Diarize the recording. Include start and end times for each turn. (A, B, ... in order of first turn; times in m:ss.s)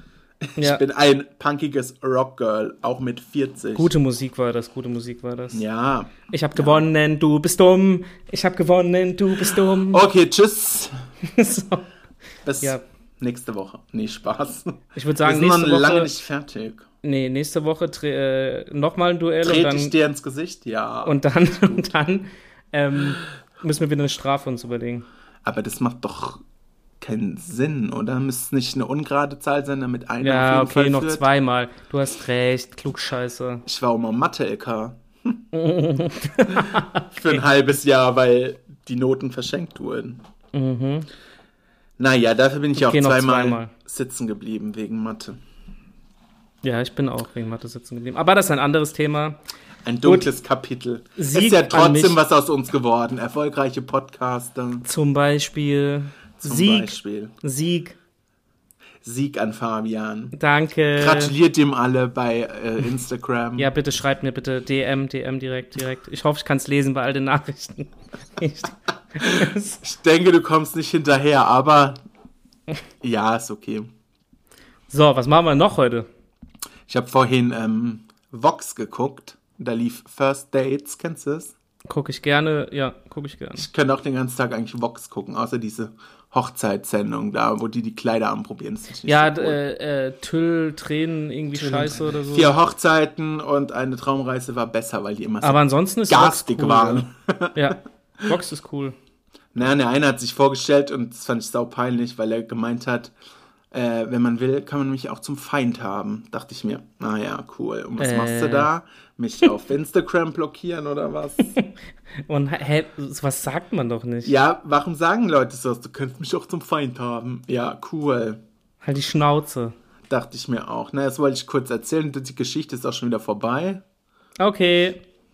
0:00.4-0:03.9 A
0:00.6-0:00.8 B
0:03.7-0:05.6 B
0:05.5-0:06.9 A
0:06.3-0:10.0 B
0:09.5-0:10.9 A
0:11.2-0:11.9 B
0:12.4-0:16.8 A
0:14.9-0:16.1 B
0:17.0-0:19.9 B
0:19.4-0:21.9 A
0:21.0-0:25.0 B
0:25.4-0:26.4 A
0:27.0-0:31.2 A
0:30.2-0:33.6 B
0:33.6-0:35.4 A
0:35.5-0:37.4 B
0:36.5-0:40.2 A
0:40.5-0:41.1 B
0:42.0-0:45.4 A
0:42.8-0:43.7 B
0:46.6-0:49.4 B
0:49.8-0:54.8 A
0:50.0-0:50.3 B
0:51.2-0:52.2 B
0:54.8-0:58.0 B
0:56.4-0:57.3 A
0:59.0-1:00.3 A
1:00.3-1:01.3 B
1:00.9-1:03.7 A
1:03.6-1:09.8 B
1:09.4-1:12.0 A
1:13.0-1:13.9 A
1:14.9-1:16.1 B
1:16.9-1:21.5 A
1:21.9-1:23.6 B
1:23.6-1:29.6 A
1:29.1-1:32.5 B
1:31.6-1:37.6 A
1:35.4-1:38.9 B
1:39.5-1:43.1 A
1:43.7-1:51.5 A
1:48.0-1:48.7 B
1:52.3-1:54.3 B
1:54.2-1:58.4 A
1:58.8-1:59.7 B
2:00.1-2:03.8 A
2:04.4-2:05.0 B